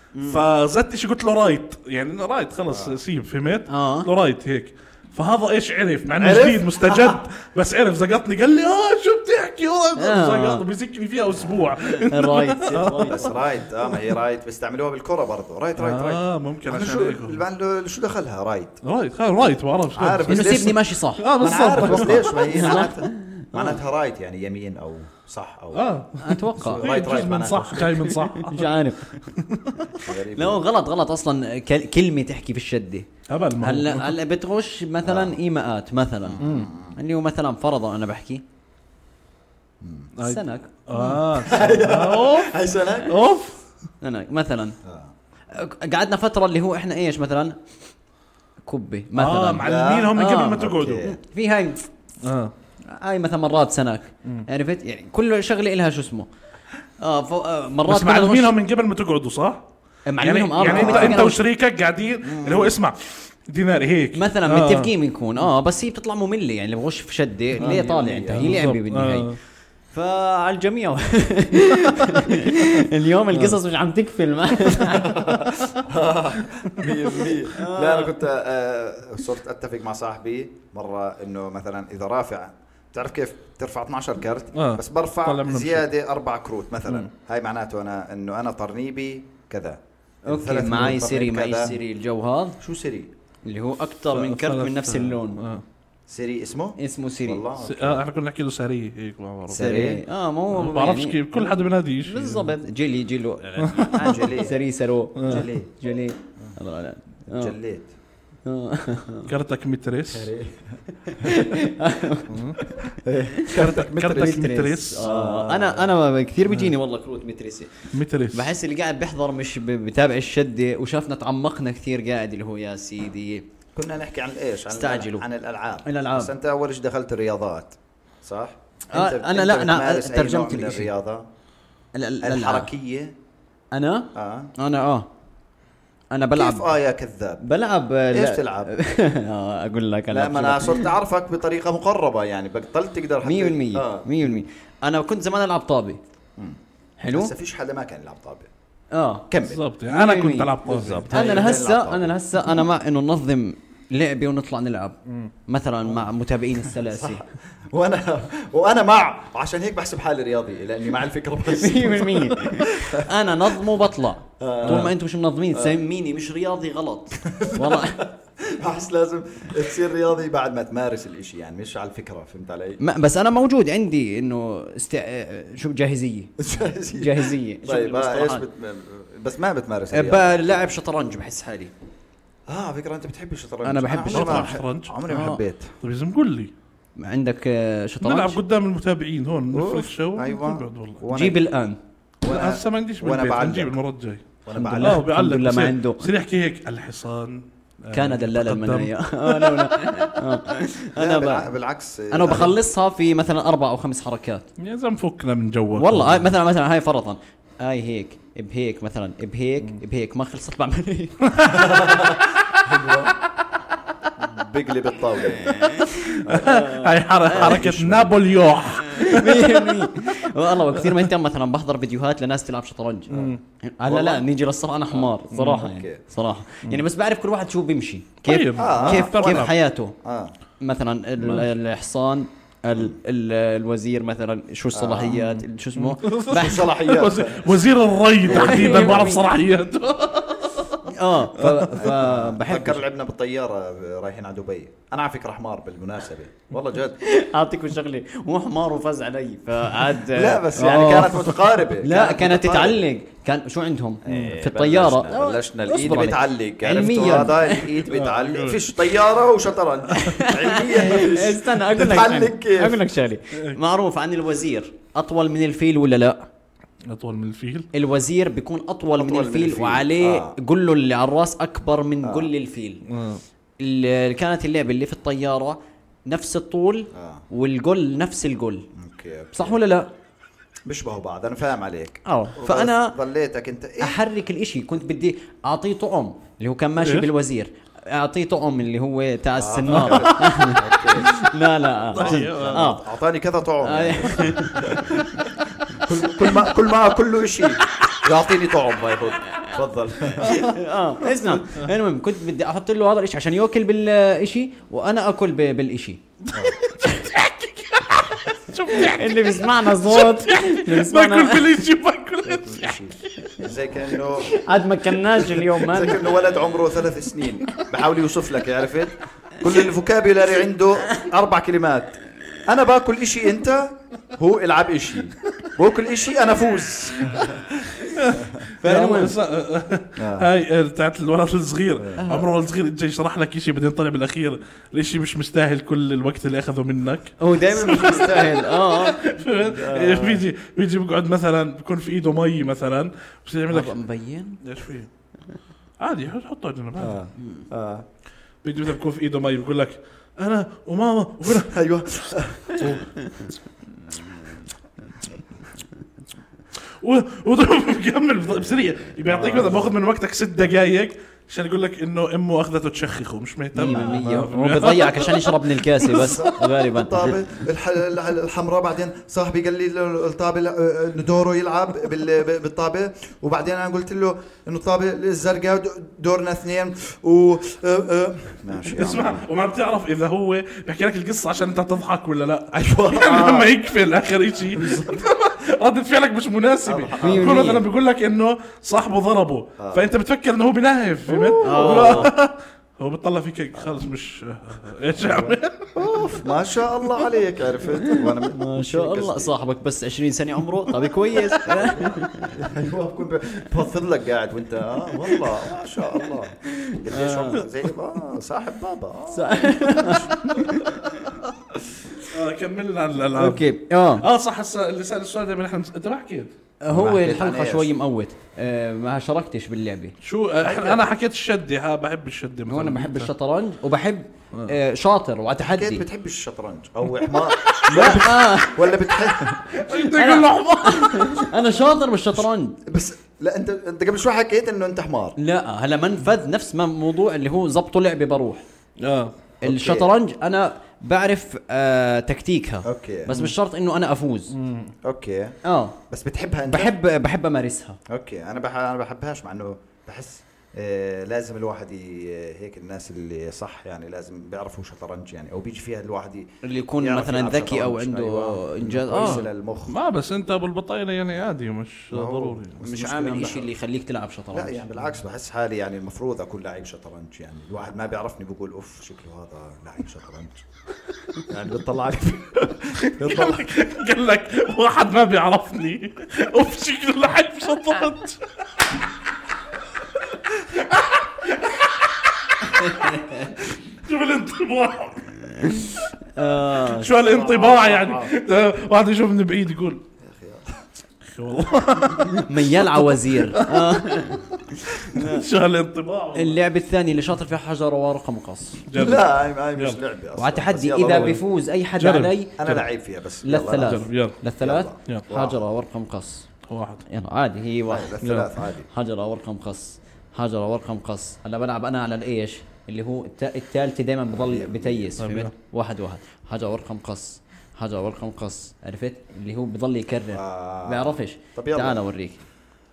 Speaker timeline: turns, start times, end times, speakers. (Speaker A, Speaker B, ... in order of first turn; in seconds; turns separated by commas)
Speaker A: 0.1-0.4, Speaker B: 0.2-13.2, Speaker C: 2.7-3.0, Speaker A: 3.7-4.1, Speaker C: 6.2-7.2, Speaker A: 10.0-10.6, Speaker A: 12.1-13.3, Speaker C: 13.1-18.8, Speaker B: 15.8-17.4, Speaker B: 18.8-22.8, Speaker C: 19.9-20.8, Speaker A: 20.3-21.2, Speaker C: 21.4-25.8, Speaker A: 21.8-23.8, Speaker B: 25.7-28.8, Speaker A: 26.2-26.9, Speaker C: 26.6-28.1, Speaker A: 28.0-29.2, Speaker B: 29.3-30.0, Speaker C: 29.9-30.6, Speaker A: 30.3-33.1, Speaker B: 33.3-34.1, Speaker A: 33.6-36.4, Speaker C: 35.0-35.4, Speaker C: 36.2-37.0, Speaker B: 36.4-36.7, Speaker A: 36.9-38.4, Speaker C: 39.8-40.1, Speaker B: 40.2-43.6, Speaker A: 40.2-41.2, Speaker C: 41.4-43.2, Speaker A: 44.0-44.8, Speaker C: 44.8-45.1, Speaker A: 45.5-47.6, Speaker A: 48.6-51.8, Speaker B: 49.1-51.1, Speaker C: 49.5-51.2, Speaker B: 52.2-52.5, Speaker A: 52.9-56.3, Speaker A: 57.0-58.5, Speaker B: 57.8-59.6, Speaker A: 60.0-61.4, Speaker B: 60.2-64.9, Speaker C: 60.6-61.3, Speaker C: 62.2-62.8, Speaker A: 64.1-69.3, Speaker C: 67.6-68.6, Speaker B: 68.4-69.4, Speaker A: 69.9-75.4, Speaker C: 74.9-91.8, Speaker A: 77.5-78.2, Speaker B: 84.5-85.9, Speaker A: 90.3-92.6, Speaker C: 92.6-93.1, Speaker A: 93.4-95.4, Speaker B: 94.1-95.6, Speaker C: 96.1-98.0, Speaker A: 96.8-97.4, Speaker B: 97.6-99.9, Speaker C: 99.5-100.0, Speaker A: 99.5-107.5, Speaker B: 100.5-102.5, Speaker C: 103.4-104.6, Speaker B: 103.6-104.3, Speaker B: 105.2-105.4, Speaker C: 105.2-105.7, Speaker C: 107.3-107.9, Speaker A: 108.5-109.3, Speaker B: 109.3-110.3, Speaker C: 110.1-111.4, Speaker A: 111.1-112.8, Speaker B: 112.3-112.6, Speaker C: 112.8-114.5, Speaker B: 113.5-115.0, Speaker A: 114.1-117.7, Speaker C: 115.0-115.9, Speaker B: 116.5-116.7, Speaker B: 117.9-118.5, Speaker A: 118.3-123.4, Speaker C: 123.7-131.3, Speaker A: 124.7-125.2, Speaker A: 125.8-126.3, Speaker A: 128.9-130.9, Speaker A: 131.9-132.7, Speaker C: 132.2-133.1, Speaker A: 133.7-135.1, Speaker C: 134.1-134.5, Speaker A: 136.1-136.7, Speaker C: 136.3-137.4, Speaker A: 137.4-140.9, Speaker C: 138.1-138.7, Speaker C: 140.1-144.1, Speaker A: 143.2-146.0, Speaker A: 147.0-147.3, Speaker C: 147.1-148.5, Speaker A: 148.9-149.3, Speaker C: 149.3-149.6, Speaker B: 149.5-151.1, Speaker A: 149.9-150.6, Speaker C: 150.6-152.2, Speaker A: 151.1-154.9, Speaker A: 155.5-157.2, Speaker C: 156.7-163.1, Speaker A: 161.5-168.1, Speaker C: 164.4-164.9, Speaker B: 164.7-164.9, Speaker C: 165.5-165.8, Speaker C: 167.2-172.8, Speaker A: 172.8-176.3, Speaker C: 176.4-180.6, Speaker A: 176.9-178.4, Speaker A: 179.9-181.7, Speaker C: 182.5-185.7, Speaker A: 183.6-184.5, Speaker B: 184.1-185.0, Speaker A: 185.1-185.4, Speaker B: 185.8-186.5, Speaker A: 187.0-188.4, Speaker B: 188.0-191.0, Speaker C: 189.5-191.4, Speaker A: 191.1-191.8, Speaker C: 192.2-193.8, Speaker B: 192.2-194.2, Speaker C: 194.4-195.0, Speaker A: 194.5-196.1, Speaker B: 194.8-200.2, Speaker A: 197.9-201.5, Speaker C: 200.9-202.6, Speaker A: 202.1-204.4, Speaker B: 204.6-206.2, Speaker A: 205.8-211.8, Speaker B: 211.3-211.7, Speaker C: 211.5-213.2, Speaker C: 214.2-215.6, Speaker A: 215.4-217.6, Speaker B: 215.6-219.8, Speaker C: 216.2-216.7, Speaker C: 217.2-218.2, Speaker A: 218.8-229.9, Speaker B: 220.8-221.1, Speaker B: 223.1-223.4, Speaker C: 223.8-224.3, Speaker C: 224.9-226.0, Speaker B: 225.3-225.7, Speaker B: 228.2-229.5, Speaker C: 228.5-229.5, Speaker C: 230.0-230.3, Speaker A: 230.6-236.7, Speaker C: 232.7-233.0, Speaker C: 234.7-235.3, Speaker B: 235.8-241.7, Speaker C: 236.3-237.6, Speaker A: 238.3-239.2, Speaker C: 238.3-239.1, Speaker A: 240.8-242.8, Speaker C: 241.7-247.0, Speaker A: 247.0-257.8, Speaker C: 250.1-252.8, Speaker C: 254.0-262.9, Speaker B: 254.1-254.3, Speaker B: 257.9-259.0, Speaker A: 259.9-266.3, Speaker B: 266.9-267.7, Speaker A: 267.7-272.8, Speaker C: 268.9-270.4, Speaker C: 272.0-272.3, Speaker B: 272.9-273.2, Speaker A: 273.6-278.7, Speaker C: 276.9-277.2, Speaker C: 278.7-279.6, Speaker A: 279.3-279.9, Speaker C: 280.6-284.0, Speaker A: 282.0-283.0, Speaker A: 283.8-292.8, Speaker B: 286.8-287.1, Speaker C: 289.4-291.1, Speaker B: 289.7-290.1, Speaker B: 291.9-292.7, Speaker C: 291.9-295.1, Speaker A: 293.6-295.0, Speaker C: 295.7-300.4, Speaker B: 300.2-300.5, Speaker A: 300.2-306.0, Speaker B: 306.3-313.3, Speaker A: 306.6-307.1, Speaker A: 308.6-311.5, Speaker C: 312.2-314.4, Speaker A: 314.2-316.2, Speaker C: 315.6-328.4, Speaker B: 327.9-343.8, Speaker A: 328.6-329.2, Speaker C: 330.0-330.3, Speaker C: 331.8-332.0, Speaker A: 332.0-332.2, Speaker A: 337.2-339.3, Speaker C: 339.5-340.2, Speaker A: 343.5-344.4, Speaker B: 344.4-344.9, Speaker B: 345.8-347.0, Speaker C: 346.8-347.9, Speaker B: 348.4-351.6, Speaker C: 351.2-352.8, Speaker B: 352.5-353.0, Speaker B: 356.8-366.2, Speaker C: 359.0-359.8, Speaker A: 363.5-367.1, Speaker C: 365.9-379.2, Speaker B: 378.8-395.8, Speaker C: 382.5-383.5, Speaker C: 384.5-385.1, Speaker C: 386.6-387.6, Speaker A: 387.0-387.6, Speaker C: 389.6-389.9, Speaker C: 391.1-392.1, Speaker A: 391.4-392.1, Speaker C: 395.0-399.3, Speaker A: 397.8-402.4, Speaker C: 401.1-410.1, Speaker A: 406.4-407.4, Speaker A: 409.1-410.9, Speaker B: 412.0-416.3, Speaker A: 413.1-414.1, Speaker A: 416.6-419.9, Speaker C: 416.7-417.7, Speaker B: 420.0-423.1, Speaker A: 420.4-420.9, Speaker A: 422.5-425.8, Speaker C: 425.4-429.5, Speaker A: 427.7-429.0, Speaker B: 429.5-431.3, Speaker A: 429.6-432.6, Speaker C: 432.6-435.1, Speaker A: 435.2-438.4, Speaker B: 438.8-439.1, Speaker C: 439.4-439.9, Speaker A: 439.4-444.3, Speaker C: 442.6-443.1, Speaker B: 444.3-444.7, Speaker C: 444.8-445.4, Speaker A: 445.4-445.8, Speaker C: 445.9-446.7, Speaker A: 446.5-447.8, Speaker C: 447.9-459.8, Speaker A: 456.4-459.2, Speaker B: 458.9-462.7, Speaker C: 461.9-463.5, Speaker A: 462.6-464.6, Speaker C: 464.3-470.4, Speaker C: 471.2-473.5, Speaker B: 472.8-478.2, Speaker B: 480.3-485.2, Speaker A: 482.7-483.2, Speaker A: 485.4-487.0, Speaker B: 486.6-489.8, Speaker C: 487.0-488.1, Speaker C: 490.0-490.6, Speaker B: 491.1-494.1, Speaker A: 492.1-495.2, Speaker B: 494.6-496.4, Speaker A: 496.1-498.6, Speaker B: 498.7-499.8, Speaker C: 498.7-501.2, Speaker A: 500.2-502.3, Speaker B: 501.8-502.6, Speaker C: 502.4-503.8, Speaker A: 503.2-506.3, Speaker B: 503.6-504.2, Speaker C: 504.4-505.4, Speaker B: 506.5-506.8, Speaker A: 506.9-507.9, Speaker C: 507.7-508.7, Speaker B: 508.0-508.3, Speaker A: 508.7-522.2, Speaker C: 514.1-514.9, Speaker B: 515.0-515.3, Speaker C: 520.1-521.8